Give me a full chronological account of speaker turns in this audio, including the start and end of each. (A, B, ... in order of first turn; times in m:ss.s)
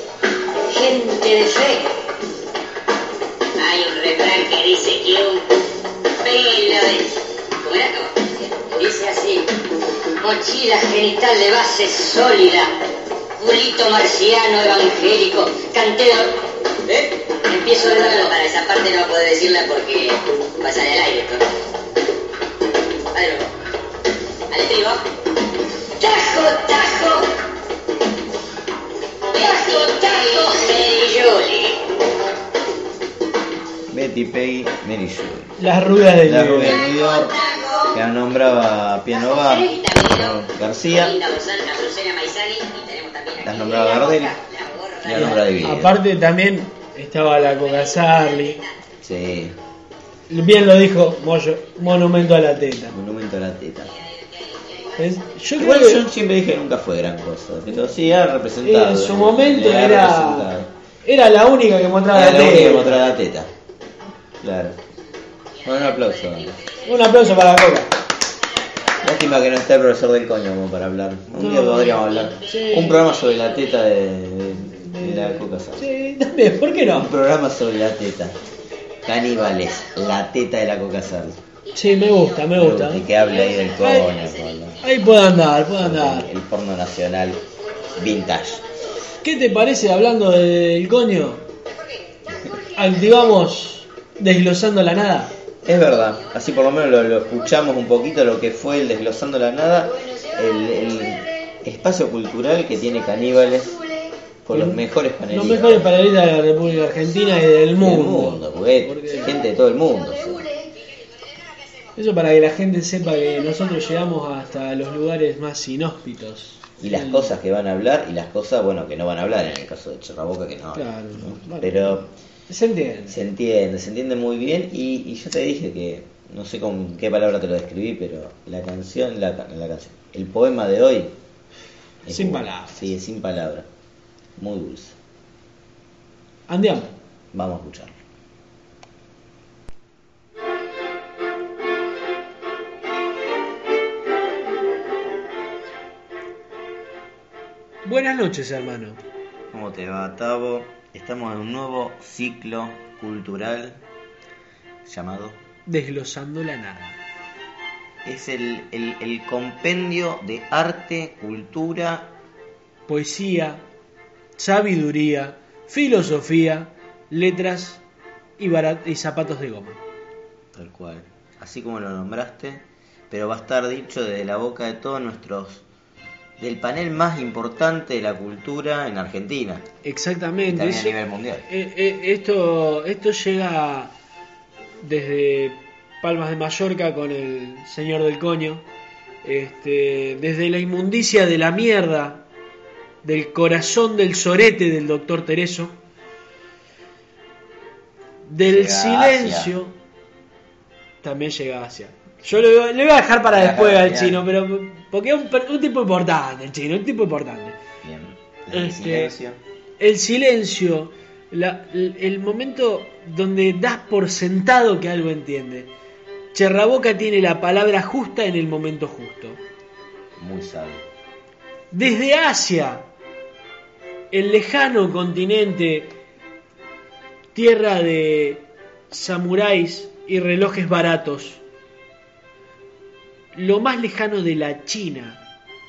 0:00.7-0:01.9 A
0:03.6-0:05.6 A
0:06.2-0:09.5 A
0:10.2-0:12.7 A
0:13.4-0:21.4 A
0:23.1-0:23.5 A
0:24.5-0:25.1 A
0:26.0-0:27.3 A
0:29.3-0:31.8 A
0:33.9-0:35.6 B
0:35.6-0:36.8 C
0:36.2-0:37.4 B
0:36.7-0:38.0 A
0:37.9-0:41.2 B
0:39.2-0:45.4 A
0:43.4-0:44.4 B
0:45.0-0:46.0 B
0:45.1-0:48.6 C
0:47.6-0:48.7 A
0:49.0-0:49.6 B
0:50.3-0:53.0 C
0:52.9-0:53.9 B
0:53.9-0:55.1 A
0:55.0-0:56.0 C
0:55.6-1:00.7 B
0:58.6-1:00.5 C
1:01.0-1:03.0 C
1:02.1-1:03.5 B
1:04.4-1:04.8 B
1:05.6-1:06.6 B
1:05.7-1:07.0 A
1:06.8-1:07.9 C
1:09.0-1:15.8 B
1:11.4-1:13.1 C
1:14.7-1:17.1 C
1:16.9-1:18.4 B
1:19.0-1:21.4 B
1:21.7-1:23.1 C
1:22.6-1:24.8 B
1:23.6-1:24.2 C
1:24.8-1:26.3 C
1:25.8-1:27.4 B
1:28.0-1:28.6 B
1:29.2-1:31.5 C
1:32.8-1:35.3 C
1:35.6-1:45.9 B
1:44.5-1:49.4 C
1:47.8-1:50.6 B
1:52.0-1:57.4 C
1:56.8-2:02.1 B
2:00.7-2:03.2 C
2:03.1-2:11.2 B
2:12.0-2:13.7 B
2:12.1-2:12.9 C
2:14.4-2:15.0 B
2:16.5-2:16.9 C
2:17.3-2:18.0 B
2:27.8-2:29.0 C
2:29.5-2:33.8 B
2:34.8-2:35.4 B
2:35.7-2:37.0 C
2:38.0-2:42.1 B
2:42.9-2:43.6 C
2:44.4-2:47.8 C
2:48.4-2:49.8 C
2:50.5-2:55.6 B
2:56.4-2:59.7 B
2:59.8-3:01.0 C
3:00.5-3:01.5 B
3:01.5-3:03.9 C
3:04.8-3:08.6 C
3:09.2-3:12.2 C
3:13.0-3:15.8 C
3:18.3-3:19.7 C
3:18.4-3:19.5 B
3:21.0-3:27.6 C
3:23.3-3:24.2 B
3:27.8-3:29.4 B
3:28.5-3:29.1 C
3:29.8-3:35.7 C
3:36.3-3:39.4 C
3:40.2-3:40.9 B
3:41.7-3:42.8 C
3:44.1-3:45.9 C
3:47.3-3:51.4 C
3:53.3-3:55.2 C